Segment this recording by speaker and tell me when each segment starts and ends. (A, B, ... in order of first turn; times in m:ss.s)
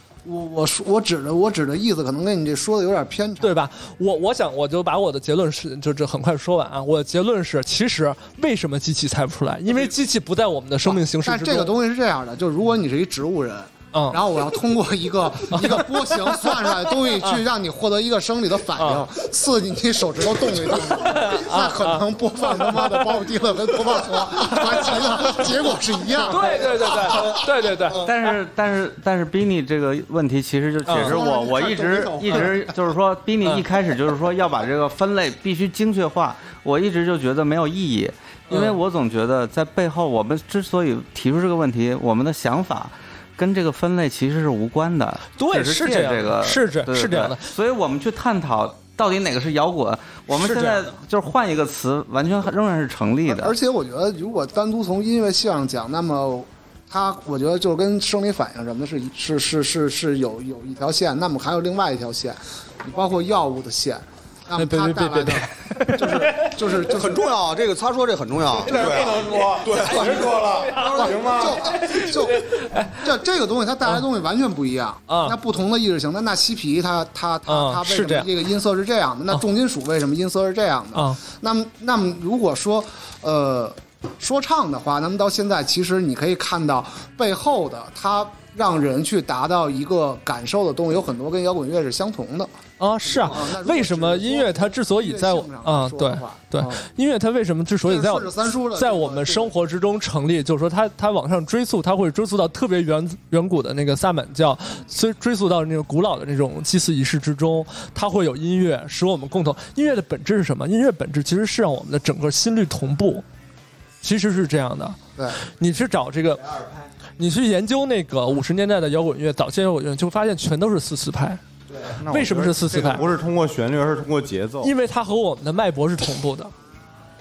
0:00.2-0:03.5 A
0:03.4-0:11.7 B
0:10.8-0:27.0 A
0:13.9-0:14.2 B
0:15.5-0:17.4 B
0:18.8-0:19.0 B
0:20.7-0:23.3 B
0:24.0-0:25.4 B
0:26.3-0:28.3 B
0:27.9-0:53.6 C
0:30.8-0:31.2 B
0:31.0-0:32.8 A
0:38.5-0:38.8 B
0:45.4-0:47.4 B
0:50.4-0:50.8 B
0:53.3-1:07.2 A
1:04.6-1:06.5 B
1:06.8-1:12.0 D
1:08.7-1:11.5 E
1:08.8-1:13.0 B
1:10.9-1:32.5 A
1:15.1-1:15.4 B
1:17.5-1:18.3 B
1:20.9-1:21.2 B
1:32.8-1:53.2 B
1:33.0-1:36.8 A
1:37.8-1:39.5 A
1:54.0-1:56.5 B
1:57.2-2:01.4 B
2:02.0-2:04.7 E
2:02.0-2:03.0 B
2:04.6-2:06.5 B